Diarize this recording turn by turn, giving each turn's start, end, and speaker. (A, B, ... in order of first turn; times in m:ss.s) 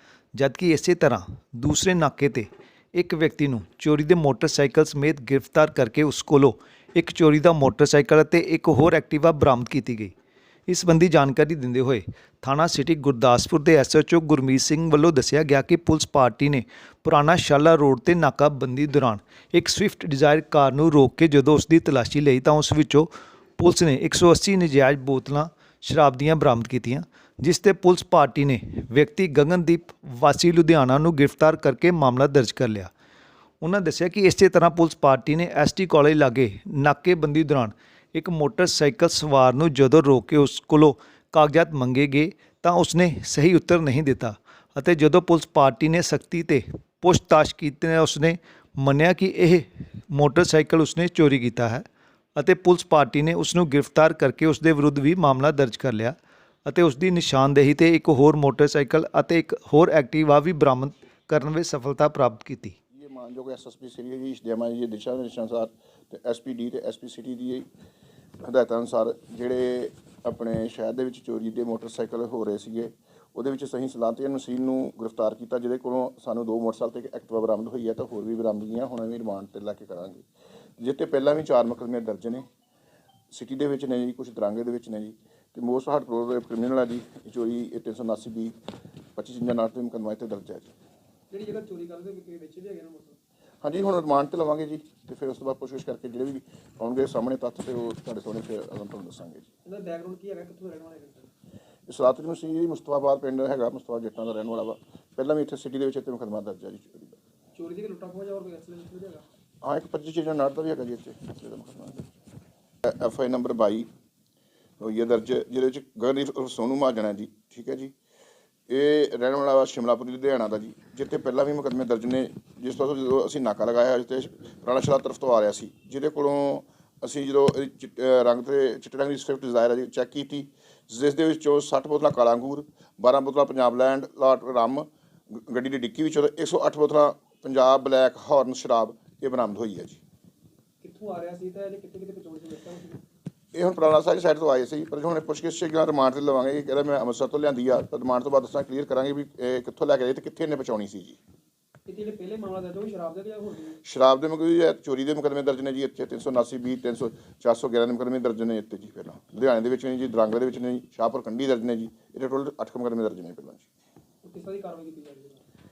0:00.3-0:10.1 A
0:10.7-0:32.9 A
0:33.6-0:51.8 A
0:52.4-0:56.1 A
0:56.6-1:02.8 A
1:02.9-1:07.7 B
1:08.4-1:20.2 B
1:20.8-1:22.4 B
1:23.3-1:28.6 B
1:29.1-1:30.7 B
1:31.3-1:33.2 C
1:33.6-1:39.5 B
1:39.6-1:41.3 C
1:41.9-1:47.2 B
1:47.5-1:49.2 C
1:49.6-1:52.1 B
1:52.8-1:53.9 B
1:54.8-1:57.9 B
1:58.7-2:20.0 B
2:20.8-2:23.0 C
2:23.5-2:31.2 B
2:31.8-2:33.8 C
2:33.8-2:43.7 B
2:44.2-2:45.4 C